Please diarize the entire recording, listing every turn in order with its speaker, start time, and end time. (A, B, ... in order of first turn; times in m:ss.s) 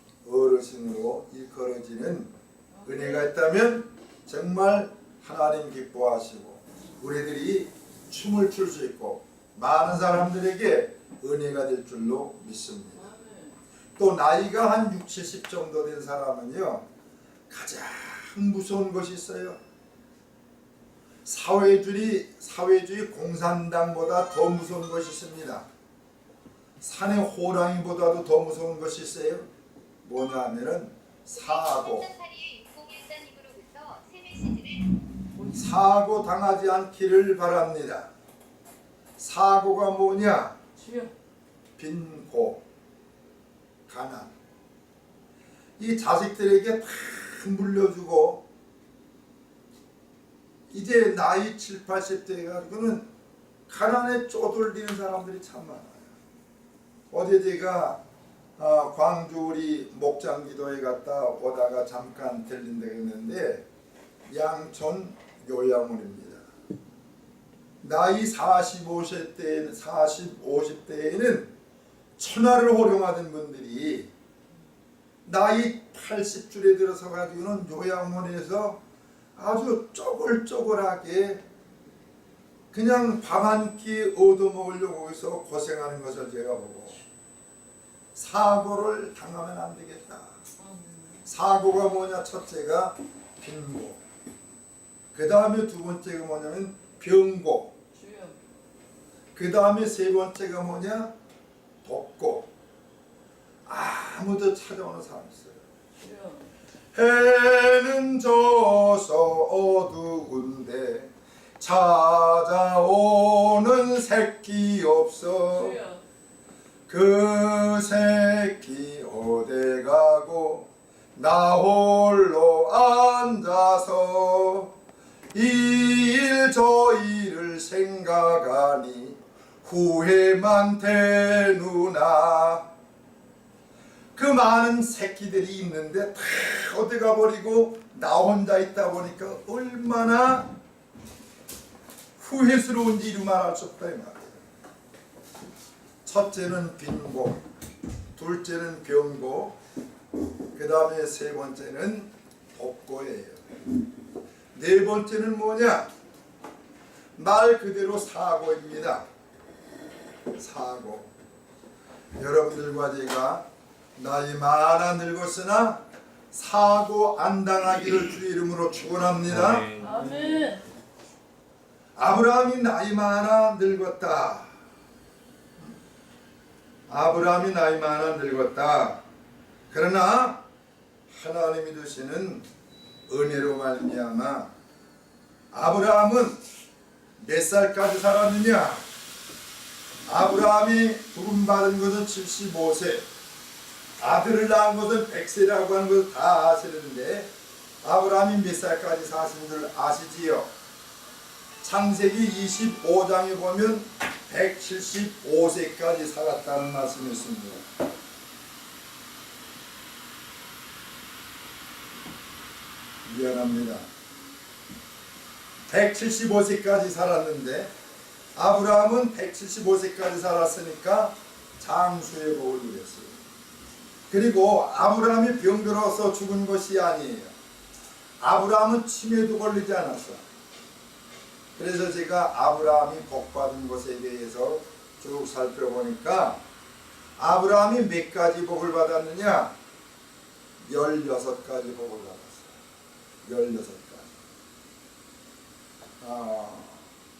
0:00.2-0:02.3 A
0:02.7-0:03.3 B
0:02.8-0:13.1 A
0:13.0-0:13.6 B
0:14.0-0:16.8 A
0:17.5-0:19.6 A
0:21.2-0:25.6 A
0:26.8-0:29.5 A
0:30.0-0:32.1 A
0:31.3-0:34.9 C
0:35.5-0:38.1 A
0:39.2-0:40.6 A
0:40.8-0:41.1 B
0:41.8-0:42.6 A
0:43.9-0:44.3 A
0:45.8-0:48.4 A
0:50.7-0:53.0 A
0:53.7-0:56.1 A
0:57.1-0:58.0 A
0:58.6-1:03.6 A
1:04.3-1:06.4 A
1:07.8-1:11.5 A
1:12.2-1:14.1 A
1:15.2-1:18.8 A
1:19.4-1:21.4 A
1:22.7-1:27.0 A
1:28.1-1:30.4 A
1:30.6-1:31.2 B
1:31.2-1:34.0 A
1:35.1-1:37.7 A
1:37.9-1:38.4 B
1:39.3-1:41.1 A
1:41.8-1:42.5 A
1:43.6-1:45.6 A
1:46.0-1:46.5 B
1:46.9-1:55.8 A
1:55.5-1:56.0 B
1:56.9-2:04.7 A
2:05.3-2:12.6 A
2:14.1-2:20.5 A
2:22.2-2:24.4 A
2:26.0-2:27.4 A
2:28.2-2:29.6 A
2:30.5-2:33.4 A
2:34.5-2:35.9 A
2:37.2-2:39.0 A
2:40.4-2:41.1 A
2:42.2-2:43.4 A
2:44.0-2:49.8 A
2:49.8-2:50.6 B
2:52.0-2:54.5 A
2:56.9-2:59.0 A
2:59.7-3:00.4 A
3:01.1-3:02.4 A
3:03.1-3:04.5 A
3:05.5-3:06.4 A
3:07.2-3:08.8 A
3:10.1-3:13.0 A
3:14.0-3:17.3 A
3:17.8-3:20.5 A
3:21.6-3:27.7 A
3:33.0-3:33.8 A
3:35.7-3:37.7 A
3:38.3-3:43.1 A
3:44.1-3:47.3 A
3:48.2-3:50.2 A
3:51.6-3:56.4 A
3:57.2-3:59.5 A
4:00.6-4:02.5 A
4:03.2-4:04.1 A
4:06.0-4:06.8 A